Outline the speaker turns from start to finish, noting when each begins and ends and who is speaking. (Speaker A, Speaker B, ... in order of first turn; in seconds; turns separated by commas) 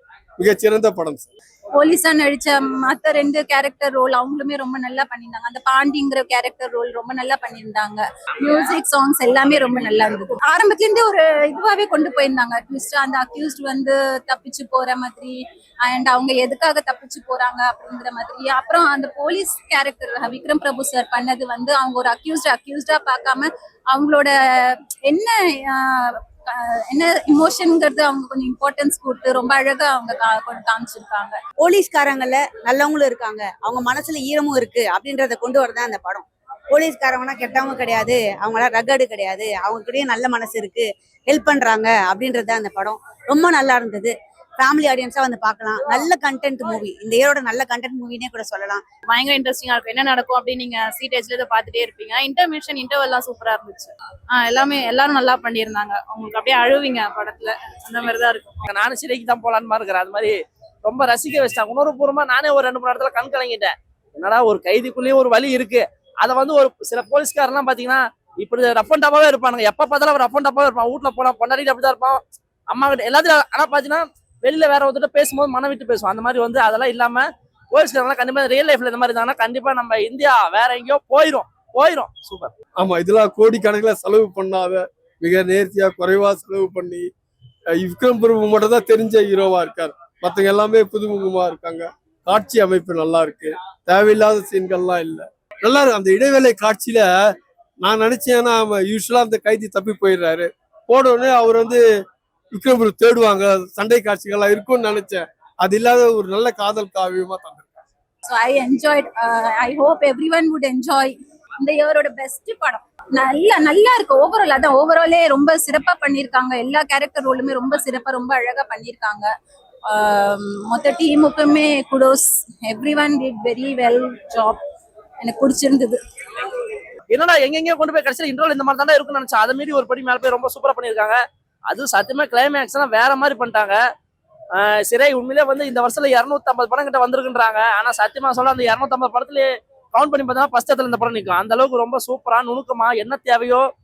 Speaker A: 0.4-1.3, Speaker B: 1.8-31.4, Speaker C: 31.6-48.8, Speaker D: 49.1-58.6, Speaker E: 58.6-82.5, Speaker A: 82.8-87.1, Speaker A: 87.7-97.1, Speaker A: 97.8-101.8, Speaker A: 102.5-107.7, Speaker B: 108.3-119.3, Speaker B: 119.9-124.6, Speaker B: 125.2-126.0, Speaker E: 127.1-131.2, Speaker E: 131.7-133.8, Speaker E: 134.6-143.7